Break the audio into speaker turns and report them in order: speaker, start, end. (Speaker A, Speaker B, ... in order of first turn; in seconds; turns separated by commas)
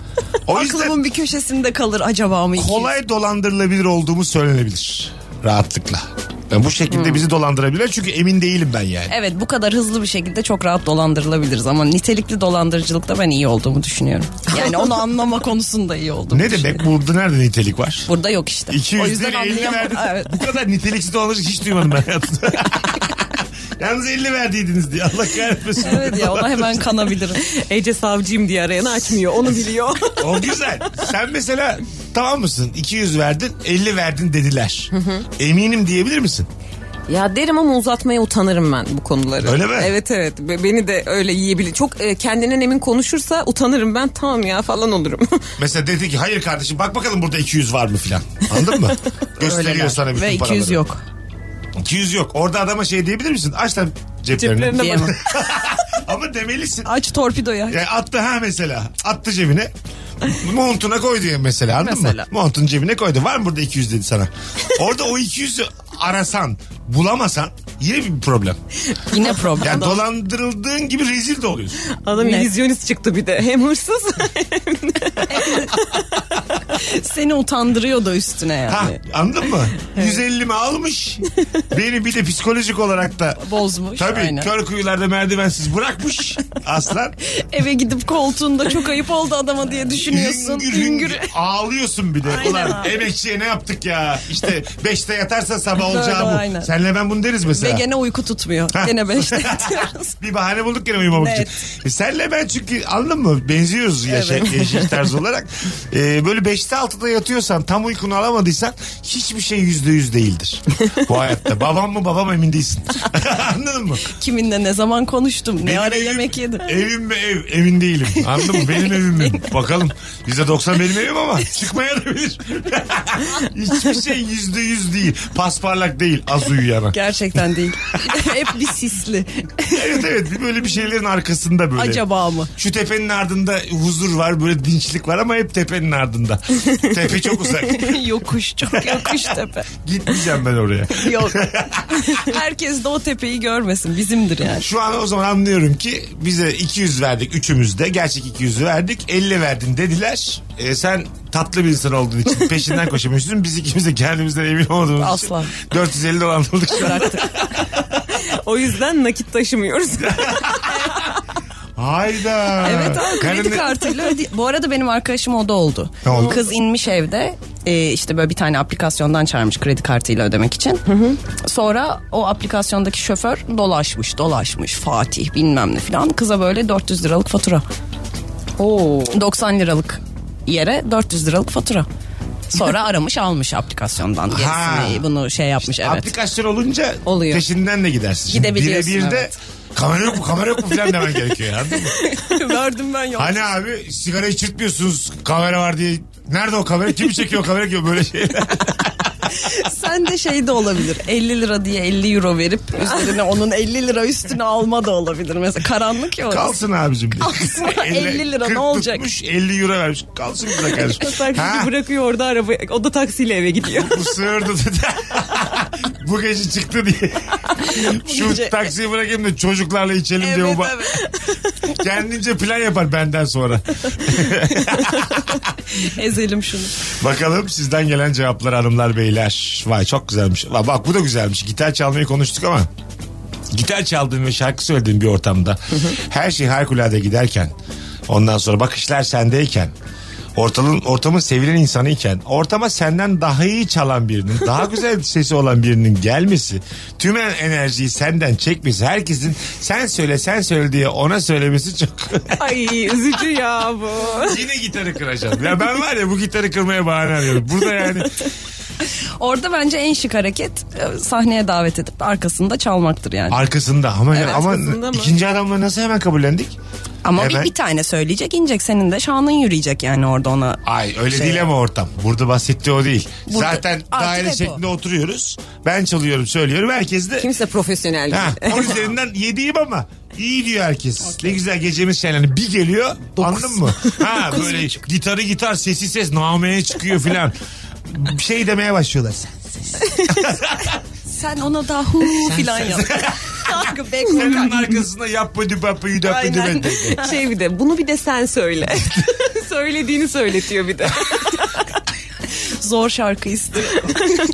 Speaker A: 0.5-1.0, Speaker B: 0.5-2.9, Speaker A: 2.5-9.2, Speaker B: 6.9-7.2, Speaker B: 9.1-16.8, Speaker A: 16.3-18.1, Speaker B: 18.1-20.3, Speaker A: 18.7-26.9, Speaker B: 25.8-27.4, Speaker C: 27.3-30.4, Speaker A: 30.2-36.5, Speaker C: 34.9-35.2, Speaker C: 37.1-45.5, Speaker A: 39.4-39.9, Speaker A: 45.6-50.8, Speaker B: 49.4-51.0, Speaker A: 51.8-56.9, Speaker C: 54.4-55.4, Speaker B: 54.7-55.1, Speaker B: 56.8-57.8, Speaker A: 57.7-59.7, Speaker A: 60.2-68.6, Speaker B: 61.8-62.3, Speaker B: 69.1-70.0, Speaker C: 69.2-69.8, Speaker A: 69.6-71.8, Speaker C: 71.9-76.0, Speaker B: 72.2-72.5, Speaker B: 75.3-75.8, Speaker B: 76.7-79.0, Speaker A: 78.7-83.4, Speaker B: 83.4-84.5, Speaker A: 83.9-87.2, Speaker B: 87.2-91.3, Speaker A: 89.9-97.8, Speaker B: 92.2-93.0, Speaker B: 95.8-96.7, Speaker B: 97.5-100.1, Speaker A: 98.7-114.1, Speaker B: 101.1-101.5, Speaker B: 104.1-104.6, Speaker B: 114.1-116.7, Speaker A: 115.6-128.3, Speaker B: 118.3-119.4, Speaker B: 126.9-130.0, Speaker A: 129.7-138.1, Speaker B: 131.8-132.5, Speaker B: 137.6-139.7, Speaker A: 138.7-142.1, Speaker B: 140.9-144.7, Speaker A: 144.6-157.8, Speaker B: 155.0-155.5, Speaker B: 156.7-157.5, Speaker C: 158.1-161.2, Speaker A: 160.0-160.9, Speaker A: 161.8-163.8, Speaker B: 162.6-177.6, Speaker A: 166.0-166.4, Speaker C: 170.9-171.2, Speaker C: 178.6-179.2, Speaker B: 179.1-181.8, Speaker B: 182.5-186.1, Speaker A: 184.3-185.0, Speaker A: 185.6-192.0, Speaker C: 187.1-187.4, Speaker B: 188.3-189.3, Speaker B: 192.0-193.4, Speaker A: 193.2-199.3, Speaker B: 199.3-206.6, Speaker A: 206.2-211.7, Speaker B: 207.2-209.0, Speaker C: 210.9-214.1, Speaker A: 213.7-220.8, Speaker B: 217.8-218.6, Speaker B: 220.2-221.0, Speaker A: 221.7-225.4, Speaker B: 225.7-226.8, Speaker A: 226.9-232.7, Speaker A: 233.5-237.5, Speaker A: 238.1-239.7, Speaker A: 240.3-252.5, Speaker C: 252.3-254.4, Speaker A: 254.2-258.2, Speaker B: 258.8-263.4, Speaker A: 263.3-266.6, Speaker C: 264.1-265.1, Speaker B: 267.0-271.5, Speaker A: 267.1-267.5, Speaker A: 270.6-277.3, Speaker B: 273.3-274.6, Speaker C: 277.2-278.9, Speaker A: 278.1-287.4, Speaker C: 283.2-284.0, Speaker B: 284.2-284.6, Speaker A: 287.9-290.8, Speaker B: 291.1-294.7, Speaker A: 292.1-297.0, Speaker B: 296.0-297.1, Speaker C: 297.0-301.6, Speaker B: 302.6-304.1